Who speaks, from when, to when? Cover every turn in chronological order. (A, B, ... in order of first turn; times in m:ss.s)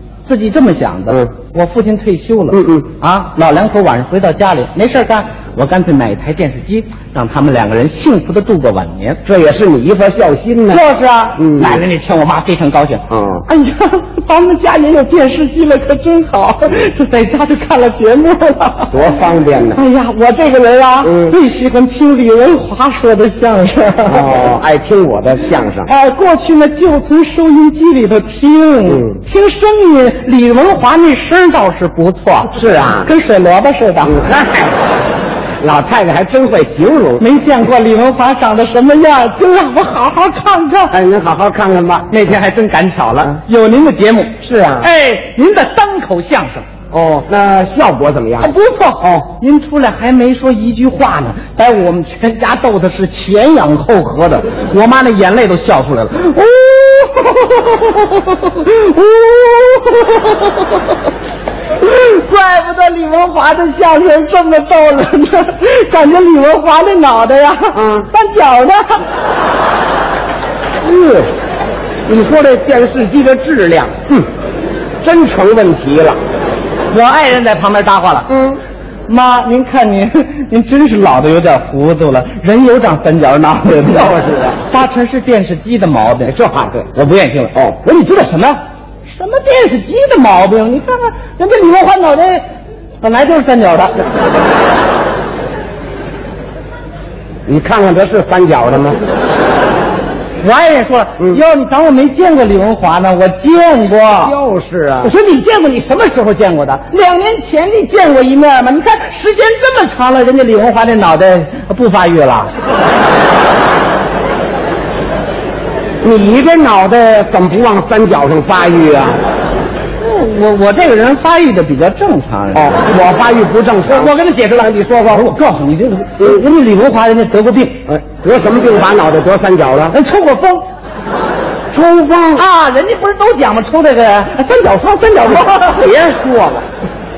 0:00.2-0:09.2 A
0:02.5-0:02.9 B
0:09.2-0:10.8 B
0:10.7-0:19.1 A
0:11.4-0:11.9 B
0:13.1-0:13.5 B
0:18.9-0:19.8 B
0:19.7-0:24.3 A
0:21.0-0:21.4 B
0:24.1-0:25.9 B
0:25.8-0:34.2 A
0:28.9-0:29.2 B
0:32.5-0:33.1 B
0:34.0-0:34.8 B
0:35.6-0:37.2 B
0:37.2-0:41.0 A
0:40.9-0:42.1 B
0:42.1-0:46.7 A
0:44.4-0:44.9 B
0:46.9-0:48.5 B
0:48.4-1:00.8 A
1:01.8-1:09.0 A
1:07.7-1:08.1 B
1:10.8-1:11.3 B
1:12.1-1:14.3 B
1:15.0-1:16.2 B
1:16.9-1:18.3 A
1:18.3-1:18.6 B
1:19.1-1:24.2 A
1:23.8-1:24.6 B
1:24.7-1:26.3 A
1:26.3-1:26.9 B
1:26.9-1:32.5 A
1:33.0-1:34.0 A
1:37.5-1:39.0 B
1:40.4-1:44.4 A
1:44.2-1:45.1 B
1:45.0-1:52.5 A
1:56.0-1:59.2 B
2:00.0-2:02.8 A
2:02.5-2:04.1 B
2:03.9-2:07.8 A
2:07.9-2:10.0 B
2:09.9-2:10.7 A
2:11.7-2:12.4 B
2:12.3-2:15.9 A
2:15.2-2:16.7 B